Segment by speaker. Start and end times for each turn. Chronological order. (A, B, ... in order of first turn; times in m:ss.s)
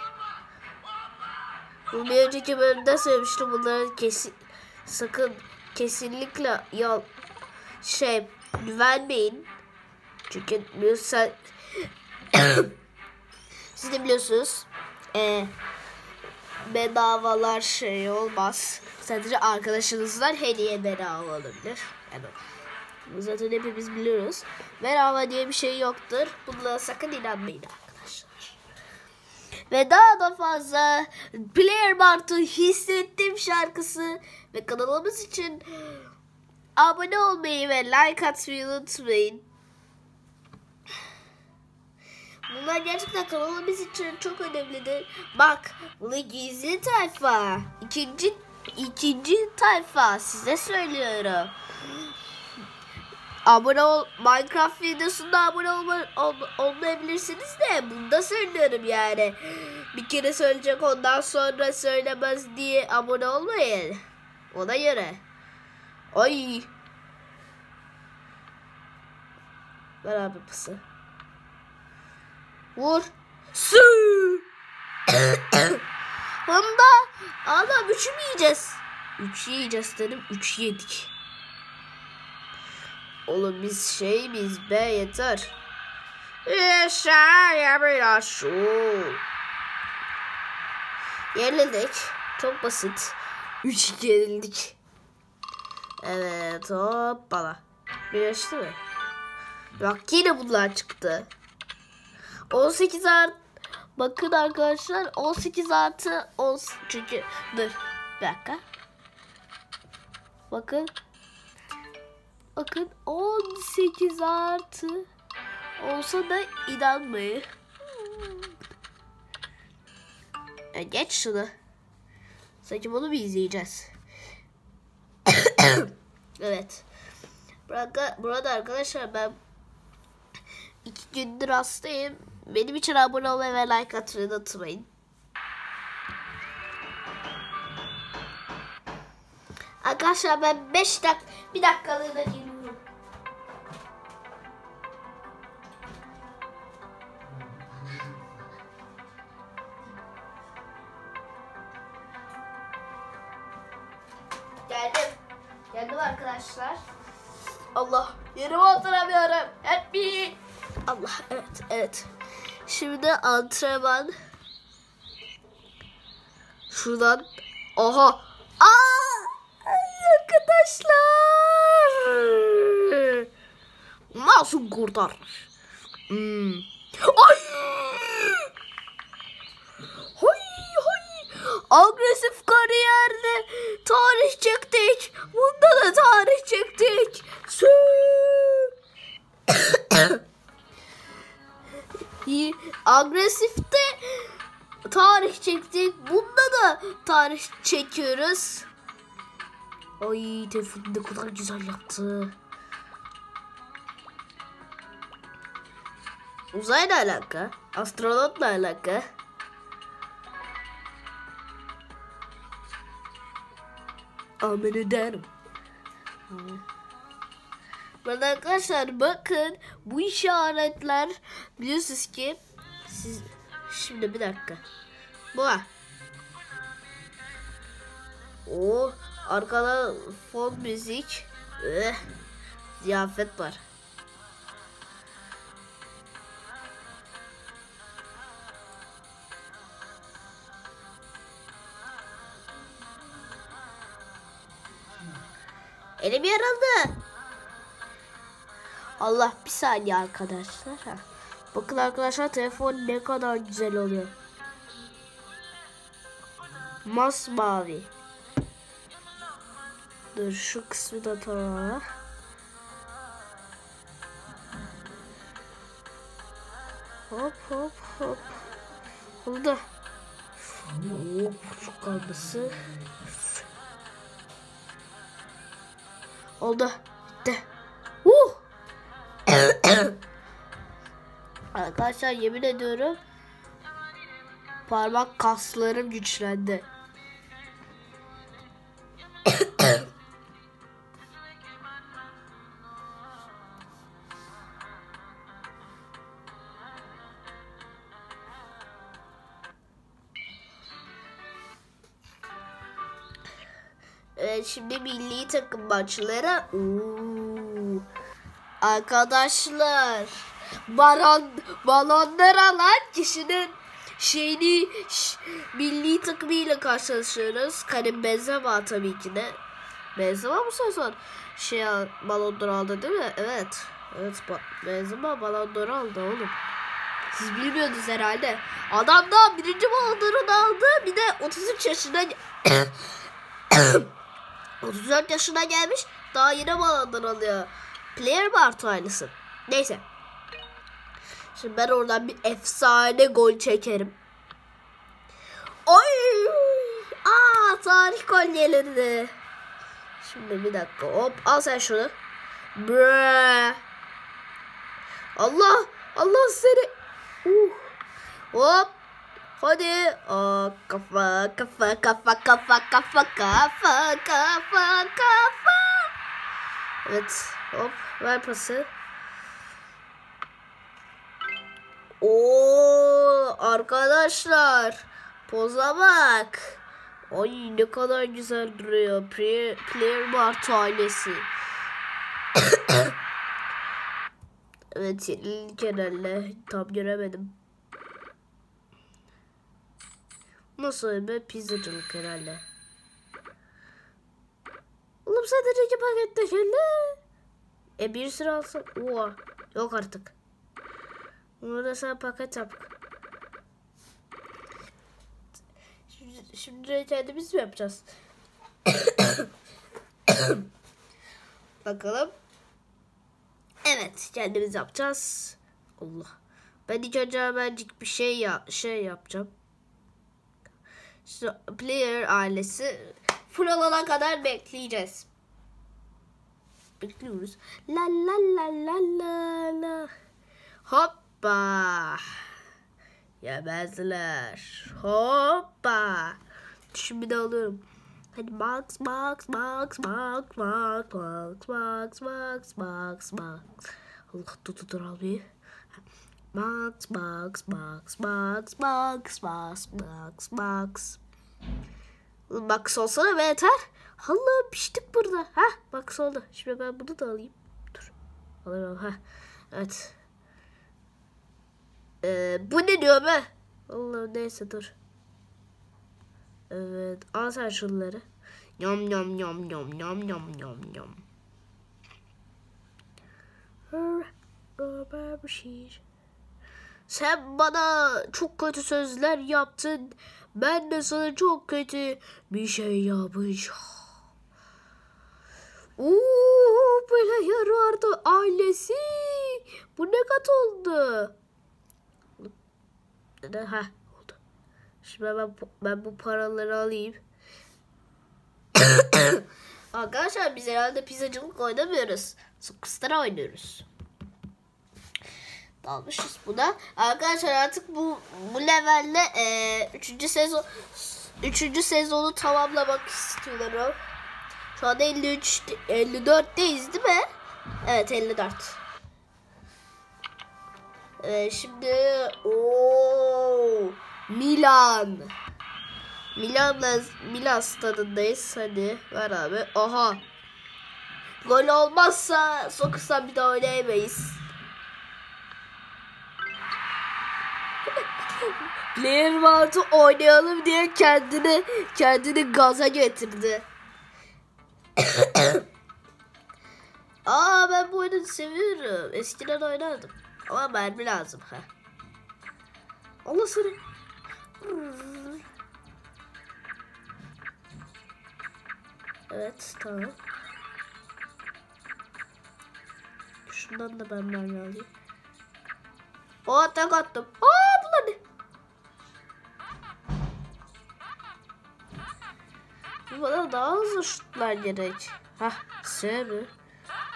0:01.9-0:07.1 A
0:07.8-0:09.5 A
0:10.3-0:12.7 A
0:13.7-0:15.5 A
0:16.6-0:22.4 A
0:23.0-0:28.6 A
0:29.7-0:36.0 A
0:36.8-0:39.4 A
0:42.5-0:51.5 A
0:53.4-1:04.0 A
1:04.5-1:05.2 A
1:06.1-1:06.7 A
1:10.0-1:10.8 A
1:12.8-1:14.4 A
1:15.1-1:15.8 A
1:16.4-1:21.1 A
1:23.2-1:25.5 A
1:26.4-1:29.2 A
1:31.3-1:34.8 A
1:36.0-1:38.8 A
1:39.8-1:41.3 A
1:42.5-1:43.4 A
1:44.0-1:48.6 A
1:50.5-1:50.9 A
1:52.5-1:55.0 A
1:55.8-1:58.5 A
2:00.7-2:01.5 A
2:02.6-2:03.9 A
2:05.3-2:06.8 A
2:07.7-2:09.4 A
2:10.8-2:14.9 A
2:19.8-2:22.8 A
2:34.7-2:35.2 A
2:35.7-2:36.8 A
2:37.7-2:42.1 A
2:42.6-2:44.1 A
2:46.7-2:53.3 A
2:54.1-2:55.5 A
2:56.1-2:58.5 A
3:00.2-3:08.7 A
3:09.5-3:10.2 A
3:12.2-3:14.3 A
3:14.8-3:18.7 A
3:20.0-3:22.3 A
3:26.5-3:29.0 A
3:34.4-3:35.3 A
3:36.3-3:36.6 A
3:38.0-3:44.6 A
3:45.3-3:45.7 A
3:48.4-3:52.0 A
3:52.8-3:53.6 A
4:06.0-4:07.0 A
4:09.0-4:14.1 A
4:16.8-4:17.9 A
4:20.1-4:21.8 A
4:27.1-4:28.3 A
4:29.2-4:29.6 A
4:30.7-4:32.6 A
4:36.4-4:37.4 A
4:38.0-4:38.4 A
4:39.3-4:39.9 A
4:41.5-4:43.0 A
4:44.7-4:46.7 A
5:04.2-5:07.8 A
5:08.6-5:19.4 A
5:19.9-5:26.4 A
5:27.1-5:32.7 A
5:33.5-5:33.9 A
5:34.6-5:39.8 A
5:41.3-5:44.0 A
5:45.6-5:49.1 A
5:50.0-5:52.0 A
5:52.5-5:53.6 A
5:55.2-5:56.7 A
5:57.2-5:57.7 A
5:58.3-5:58.7 A
5:59.4-6:05.9 A
6:06.8-6:08.7 A
6:12.0-6:21.3 A
6:22.4-6:22.9 A
6:24.7-6:27.3 A
6:30.6-6:32.4 A
6:35.0-6:37.0 A
6:37.8-6:40.1 A
6:41.4-6:42.7 A
6:45.9-6:47.9 A
6:48.7-6:49.2 A
6:50.1-6:50.4 A
6:51.6-6:52.1 A
6:53.6-6:56.1 A
6:56.7-6:59.3 A
7:01.0-7:05.1 A
7:06.8-7:09.9 A
7:10.6-7:12.2 A
7:13.2-7:16.2 A
7:16.7-7:17.6 A
7:18.1-7:25.2 A
7:26.3-7:31.0 A
7:32.3-7:37.9 A
7:38.4-7:39.0 A
7:39.5-7:39.9 A
7:42.0-7:44.7 A
7:46.5-7:48.0 A
7:48.6-7:51.0 A
7:53.7-7:55.8 A
7:56.9-8:03.6 A
8:05.8-8:11.1 A
8:13.2-8:14.2 A
8:14.8-8:17.0 A
8:18.5-8:23.6 A
8:25.6-8:33.8 A
8:34.5-8:37.0 A
8:37.6-8:38.6 A
8:41.0-8:45.1 A
8:46.1-8:50.0 A
8:51.2-8:54.2 A
8:58.2-9:03.4 A
9:04.8-9:05.4 A
9:07.0-9:11.5 A
9:13.0-9:13.6 A
9:14.4-9:15.2 A
9:19.1-9:20.0 A
9:23.3-9:24.7 A
9:26.2-9:28.0 A
9:32.9-9:36.3 A